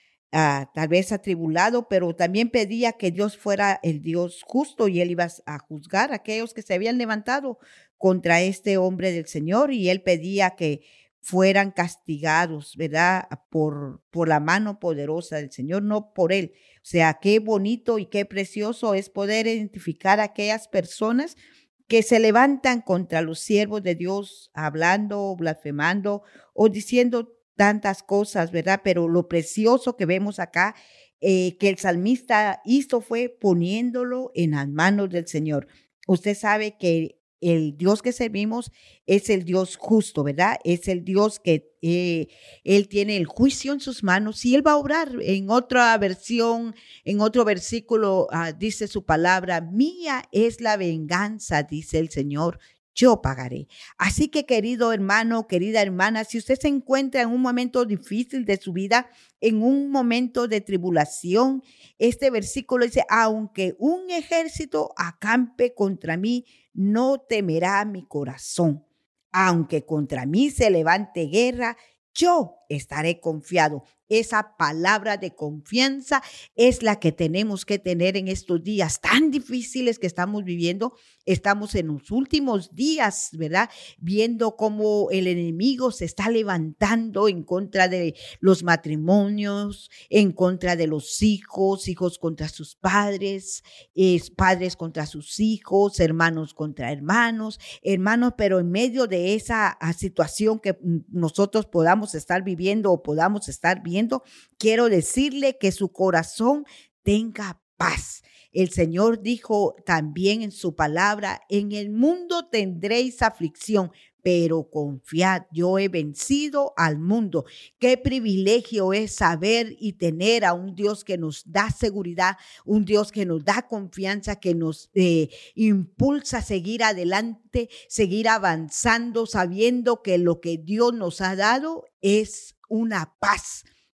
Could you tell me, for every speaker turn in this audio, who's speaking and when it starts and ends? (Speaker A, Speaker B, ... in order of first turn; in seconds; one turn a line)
Speaker A: 0.3-133.7